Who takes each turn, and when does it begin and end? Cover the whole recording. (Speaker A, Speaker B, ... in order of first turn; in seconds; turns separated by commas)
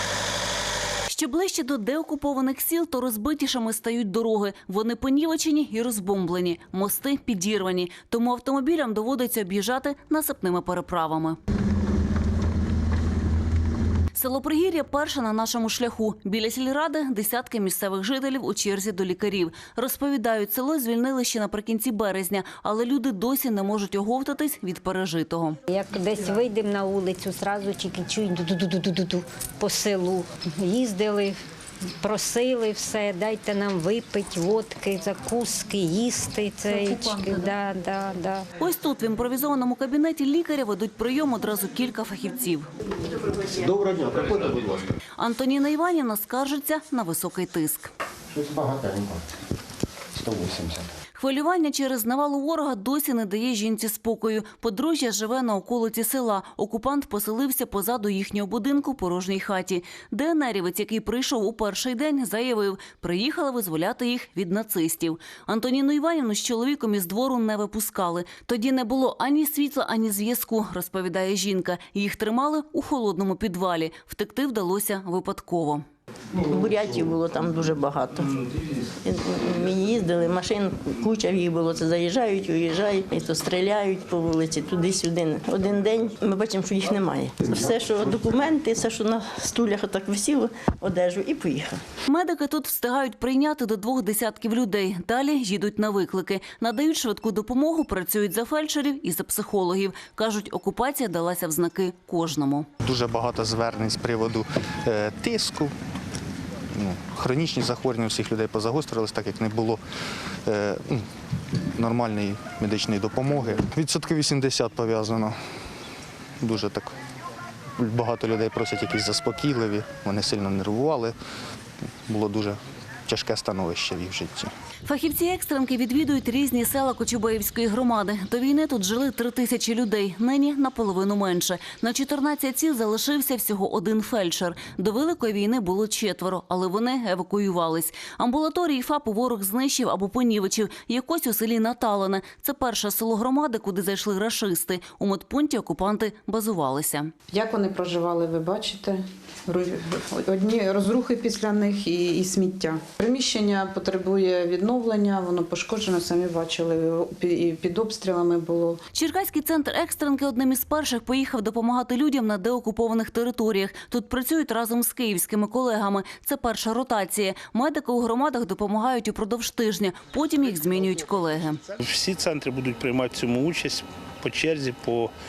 Speaker A: 1.1-11.4, Speaker A: 14.1-25.6, Speaker B: 25.7-31.4, Speaker B: 32.0-38.5, Speaker A: 38.6-42.7, Speaker C: 43.5-44.8, Speaker A: 45.2-47.9, Speaker C: 48.3-49.2, Speaker C: 50.2-50.9, Speaker A: 51.2-75.8, Speaker D: 76.4-91.8, Speaker A: 92.1-102.7, Speaker E: 102.8-105.7, Speaker E: 106.8-109.8, Speaker E: 110.5-111.0, Speaker E: 111.8-115.3, Speaker E: 116.4-116.9, Speaker E: 117.8-121.2, Speaker E: 122.1-124.5, Speaker A: 124.8-147.1, Speaker F: 147.3-158.8, Speaker A: 158.9-171.6, Speaker G: 170.5-171.2, Speaker G: 171.7-175.1